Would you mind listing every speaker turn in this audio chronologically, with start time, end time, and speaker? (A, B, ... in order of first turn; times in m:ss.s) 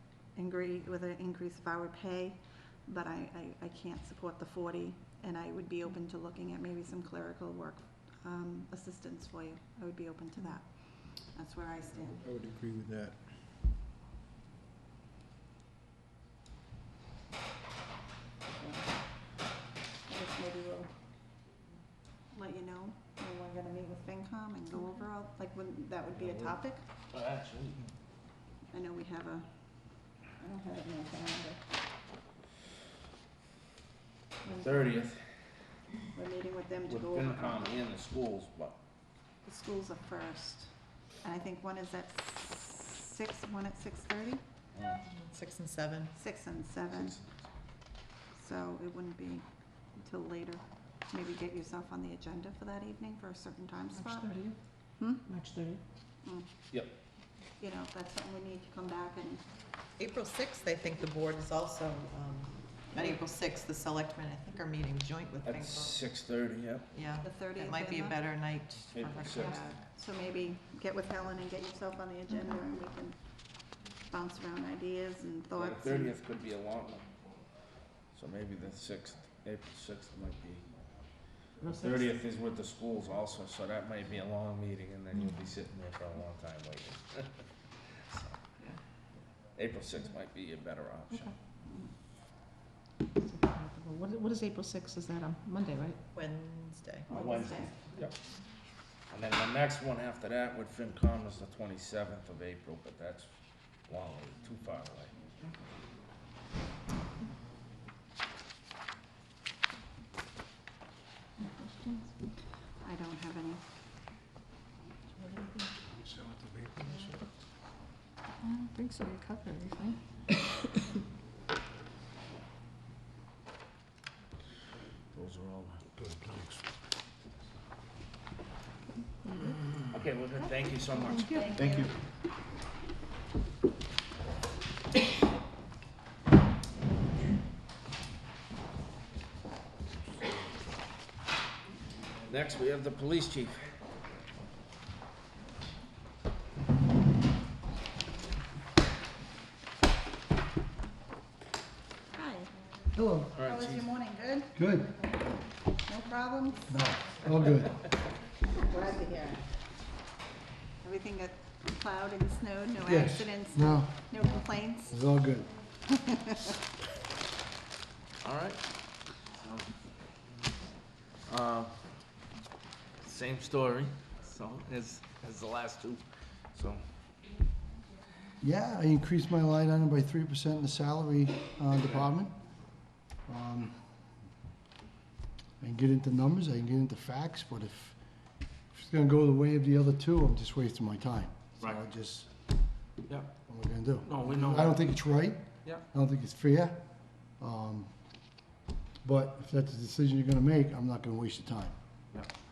0:00.3-0:12.2 A
0:12.2-0:13.2 B
0:18.6-0:18.9 A
0:20.1-0:20.9 A
0:22.3-0:26.8 A
0:26.2-0:26.6 C
0:27.1-0:27.9 C
0:28.7-0:29.6 A
0:30.4-0:31.6 A
0:34.4-0:35.2 C
0:34.4-0:34.9 A
0:36.1-0:37.8 A
0:36.9-0:38.8 C
0:39.4-0:40.7 A
0:41.2-0:44.4 A
0:44.7-0:45.0 C
0:45.3-0:46.1 D
0:46.2-0:47.2 A
0:46.9-0:47.2 C
0:48.3-0:54.3 A
0:53.9-0:54.6 E
0:55.0-0:55.2 A
0:55.2-0:55.8 E
0:56.2-0:56.5 A
0:57.6-0:59.4 A
1:00.0-1:06.0 D
1:05.4-1:06.9 C
1:06.9-1:09.7 D
1:07.2-1:08.2 A
1:08.9-1:09.6 C
1:09.4-1:13.2 A
1:14.1-1:16.1 A
1:15.6-1:17.1 C
1:18.1-1:20.6 C
1:21.6-1:22.0 E
1:21.8-1:27.3 C
1:28.1-1:28.4 C
1:29.5-1:31.3 C
1:33.2-1:36.0 E
1:36.1-1:37.1 D
1:37.1-1:38.1 C
1:37.1-1:37.7 A
1:39.1-1:43.3 C
1:43.9-1:45.1 C
1:51.4-1:52.1 A
1:52.8-1:53.6 A
1:56.0-1:57.1 B
1:58.4-2:00.0 A
2:05.1-2:05.8 C
2:06.1-2:06.5 B
2:09.9-2:11.4 C
2:10.7-2:11.9 A
2:22.3-2:23.6 C
2:32.1-2:32.5 A
2:32.9-2:33.3 F
2:33.3-2:33.9 C
2:33.4-2:34.6 A
2:34.5-2:34.9 F
2:35.8-2:36.8 A
2:36.7-2:37.8 F
2:38.4-2:39.5 A
2:40.8-2:44.9 A
2:42.8-2:45.5 F
2:45.9-2:46.4 A
2:48.2-2:48.6 C
2:49.2-2:49.7 C
2:51.3-2:51.8 C
2:53.0-2:56.8 C
2:58.4-3:02.4 F
3:03.3-3:03.8 F
3:05.6-3:08.0 F
3:08.7-3:12.3 F
3:13.5-3:16.8 F
3:14.0-3:14.8 C
3:17.4-3:17.9 F
3:19.0-3:21.8 F